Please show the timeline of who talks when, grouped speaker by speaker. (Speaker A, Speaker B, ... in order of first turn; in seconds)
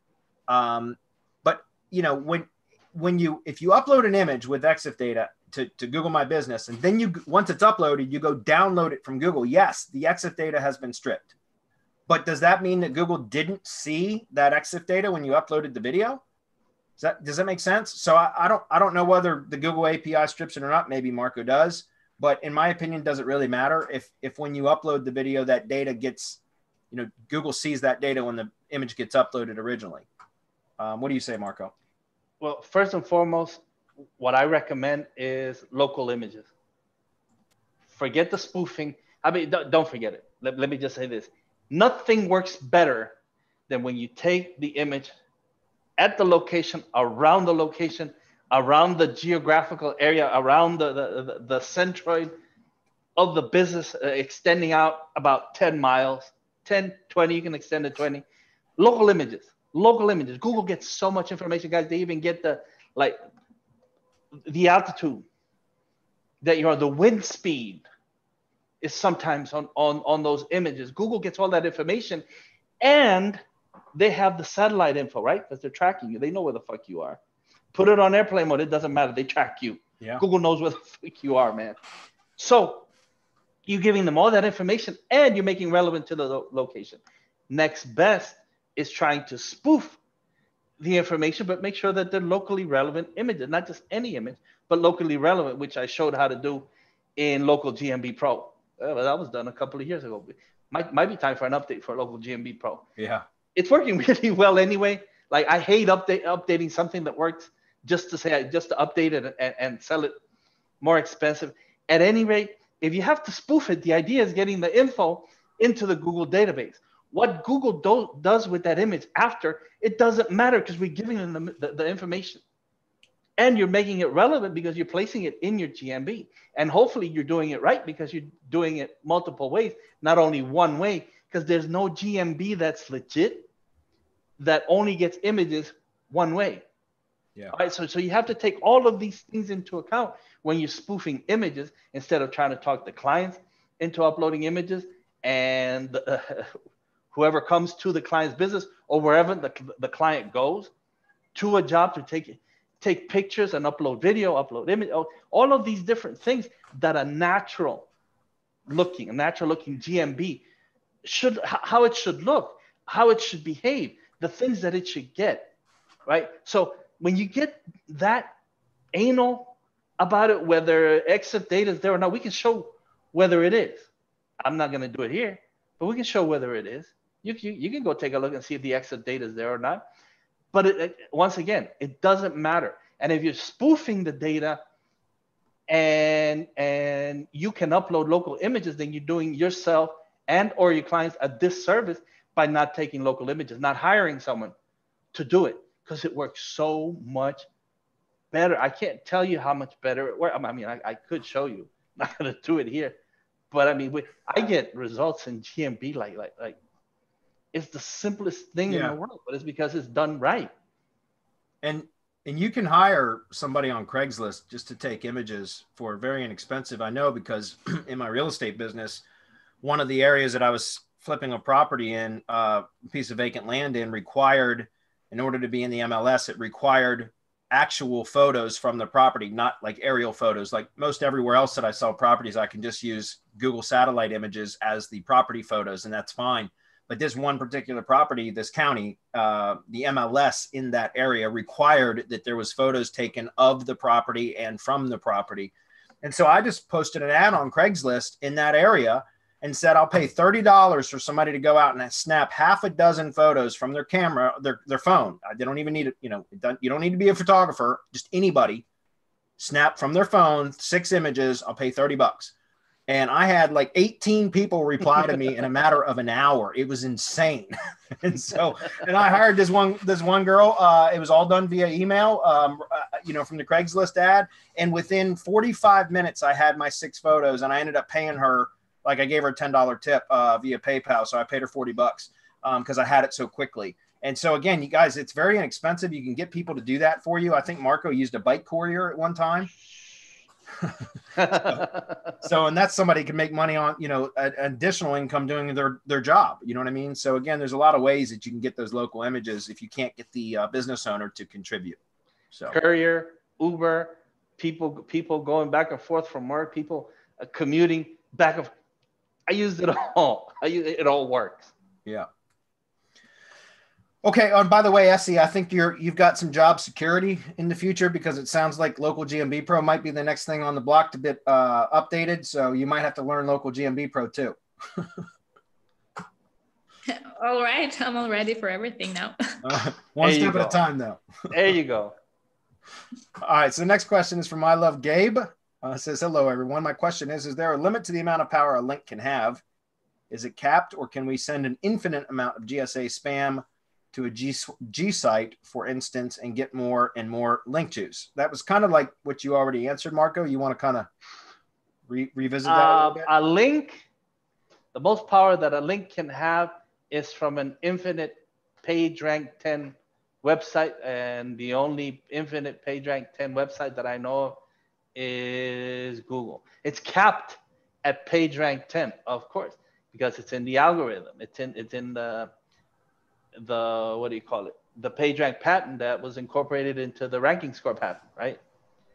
Speaker A: 0.5-11.3, 12.1-16.2, 17.0-26.4, 26.9-30.1, 30.8-31.7, 103.0-103.2, 208.7-208.9, 211.6-219.0, 219.6-258.6, 259.4-262.3, 262.9-289.5, 290.6-291.7, 292.2-301.8, 314.0-325.1, 329.4-331.1, 333.2-339.4, 340.1-350.9, 351.9-353.1
Speaker B: 32.4-33.6, 34.2-36.5, 37.9-43.1, 43.7-45.1, 46.0-52.3, 53.1-58.2, 58.8-63.2, 64.4-65.2, 66.4-67.8, 68.8-72.2, 72.8-73.4, 73.9-77.2, 77.7-81.8, 82.4-82.9, 83.7-90.0, 90.8-102.8, 103.5-110.2, 110.8-122.4, 123.4-133.5, 134.4-136.6, 137.5-146.6, 147.1-150.7, 151.3-157.9, 158.7-160.4, 161.0-165.5, 166.1-168.3, 168.9-173.9, 174.4-179.8, 180.5-184.6, 185.7-194.5, 195.1-197.5, 198.3-202.9, 203.5-206.6, 207.5-210.5, 291.2-291.7, 302.5-308.5, 309.3-311.5, 330.0-330.6, 331.3-331.9, 352.4-353.8, 354.7-364.4, 364.9-372.3, 373.4-378.4
Speaker C: 326.9-329.6